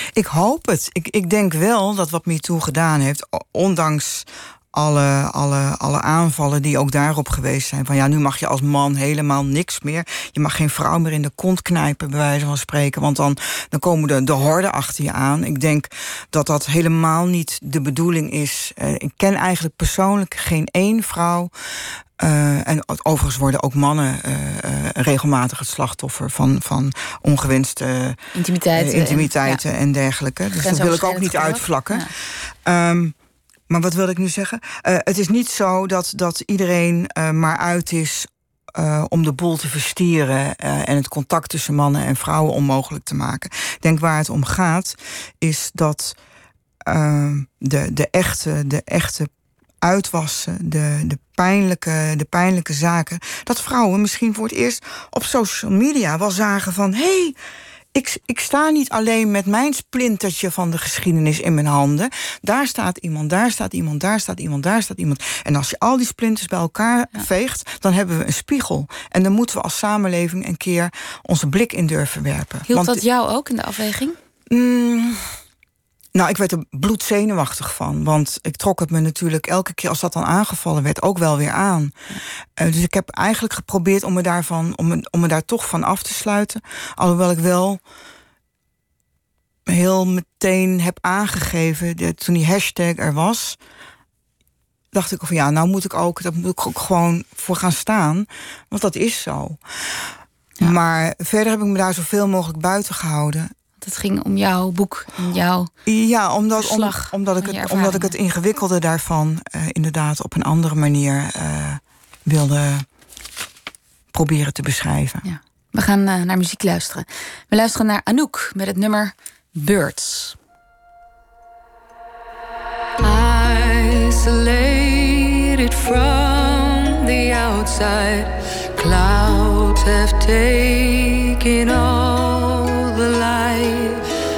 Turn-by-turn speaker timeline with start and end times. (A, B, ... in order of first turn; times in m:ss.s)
0:00.1-0:21.5 A
0:22.2-0:28.2 A
0:28.3-0:29.6 B
0:28.7-0:33.1 A
0:30.5-0:32.1 B
0:33.7-0:46.2 A
0:46.8-0:49.3 A
0:49.8-0:57.4 A
0:57.9-1:13.0 A
1:12.7-1:14.2 B
1:14.5-1:15.3 A
1:16.1-1:22.0 A
1:22.6-1:27.8 A
1:29.7-1:33.6 A
1:34.9-1:39.6 A
1:40.6-1:43.5 A
1:43.8-1:45.7 B
1:45.8-1:52.8 A
1:46.6-1:48.1 B
1:54.1-1:55.2 A
1:55.2-2:00.4 B
2:03.0-2:14.0 C